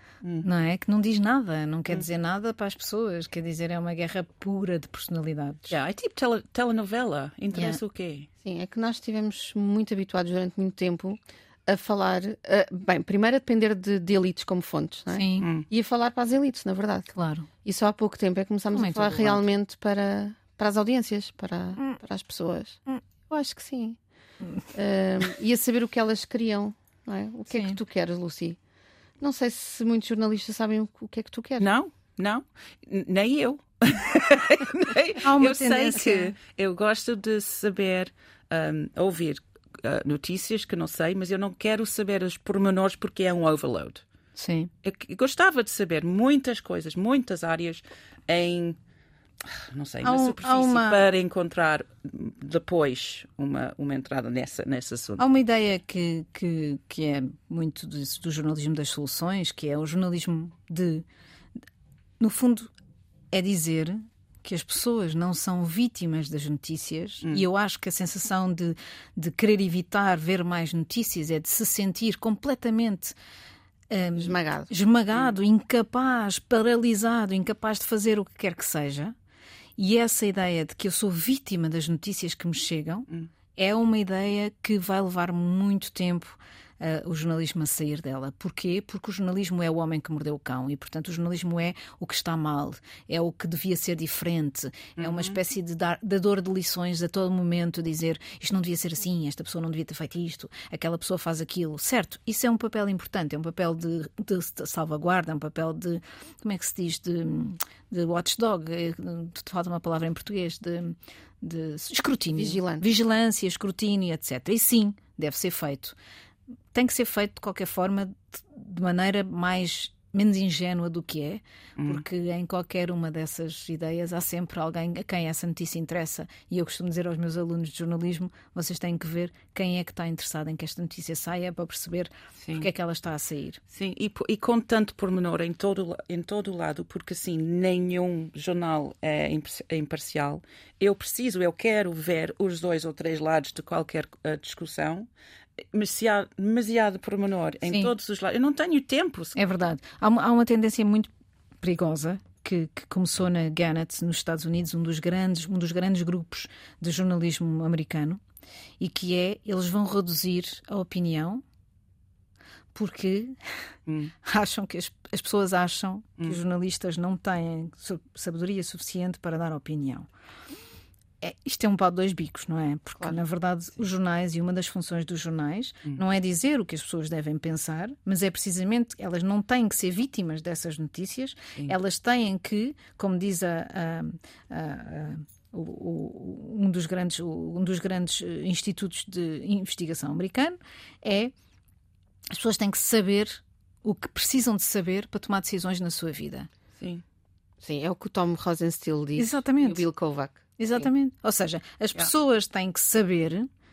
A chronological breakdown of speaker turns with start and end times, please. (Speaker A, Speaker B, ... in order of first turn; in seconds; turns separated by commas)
Speaker A: 0.2-0.5, Speaker B: 0.4-5.8, Speaker A: 5.7-8.3, Speaker B: 7.5-7.8, Speaker C: 8.4-17.1, Speaker B: 15.1-15.5, Speaker A: 15.4-15.7, Speaker B: 17.1-17.5, Speaker C: 17.6-24.0, Speaker B: 18.7-19.4, Speaker C: 24.7-28.6, Speaker B: 27.5-27.8, Speaker C: 29.2-31.7, Speaker A: 31.6-44.0, Speaker B: 35.2-36.3, Speaker B: 44.4-44.7, Speaker A: 44.8-48.8, Speaker A: 49.4-55.2, Speaker B: 50.0-51.0, Speaker B: 55.2-61.0, Speaker B: 62.2-62.7, Speaker B: 63.3-73.1, Speaker B: 73.9-79.1, Speaker C: 74.2-74.7, Speaker B: 79.8-116.0, Speaker A: 95.0-95.4, Speaker C: 112.3-112.8, Speaker B: 116.7-133.6, Speaker A: 121.8-122.0, Speaker A: 132.4-132.7, Speaker A: 133.7-145.1, Speaker A: 145.7-149.4, Speaker B: 147.7-147.9, Speaker B: 149.3-151.1, Speaker B: 151.6-158.2, Speaker B: 158.8-161.4, Speaker B: 162.7-163.7, Speaker A: 163.9-164.1, Speaker B: 164.2-170.1, Speaker B: 171.2-191.3, Speaker B: 192.3-196.5, Speaker A: 196.8-197.0, Speaker C: 197.6-200.8, Speaker B: 199.2-199.8, Speaker B: 200.6-203.5